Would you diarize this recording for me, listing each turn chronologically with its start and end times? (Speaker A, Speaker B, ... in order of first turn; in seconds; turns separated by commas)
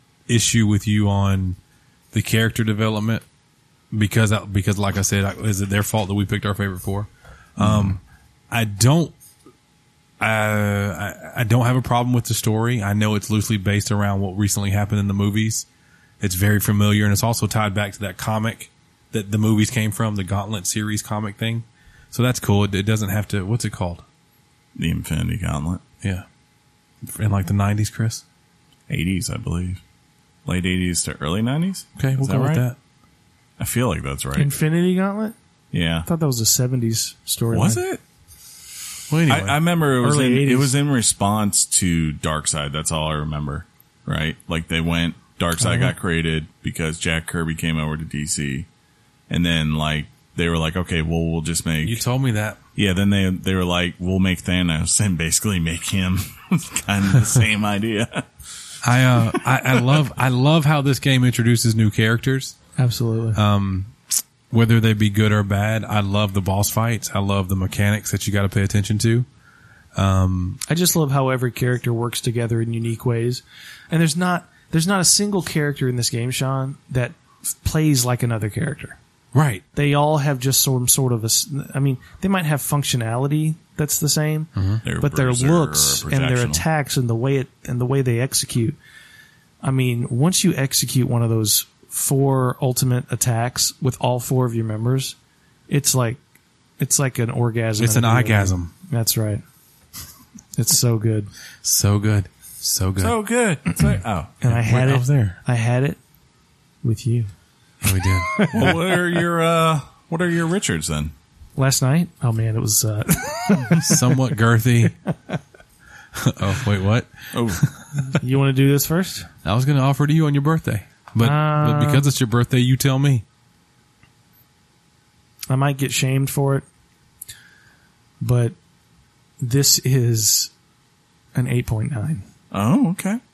Speaker A: 0.3-1.6, Speaker A: 2.1-3.2, Speaker A: 3.9-8.0, Speaker B: 7.6-8.0, Speaker A: 8.5-9.1, Speaker A: 10.2-15.7, Speaker A: 16.2-24.0, Speaker B: 24.8-25.8, Speaker A: 27.0-28.2, Speaker B: 28.9-29.8, Speaker B: 30.5-32.6, Speaker A: 32.0-32.8, Speaker B: 33.6-34.5, Speaker C: 34.4-35.4, Speaker B: 35.7-36.1, Speaker C: 36.1-37.8, Speaker B: 37.5-38.0, Speaker A: 39.1-39.6, Speaker B: 39.3-48.7, Speaker C: 40.0-40.7, Speaker C: 45.6-46.0, Speaker B: 49.3-52.0, Speaker A: 51.8-52.6, Speaker B: 52.8-58.2, Speaker A: 58.8-62.6, Speaker C: 62.8-63.4, Speaker A: 63.3-64.0, Speaker A: 64.5-69.3, Speaker A: 70.0-70.6, Speaker C: 70.7-79.0, Speaker A: 79.3-79.6, Speaker C: 79.8-88.8, Speaker A: 84.6-84.8, Speaker B: 84.8-86.6, Speaker C: 89.6-95.2, Speaker C: 95.7-96.2, Speaker C: 96.8-99.4, Speaker A: 97.8-98.7, Speaker C: 100.6-101.3, Speaker A: 101.6-103.2, Speaker B: 103.0-104.3, Speaker C: 104.4-106.0, Speaker A: 104.5-105.4, Speaker C: 106.8-107.3, Speaker A: 107.8-108.8, Speaker C: 108.3-108.8, Speaker B: 108.5-111.1, Speaker C: 111.6-114.2, Speaker A: 113.8-115.0, Speaker A: 116.2-117.9, Speaker B: 117.3-117.7, Speaker C: 118.1-119.3, Speaker A: 119.4-123.2, Speaker C: 121.2-122.1, Speaker C: 125.5-126.7, Speaker C: 128.2-128.6, Speaker C: 129.4-130.5, Speaker C: 131.3-132.2, Speaker B: 132.5-133.2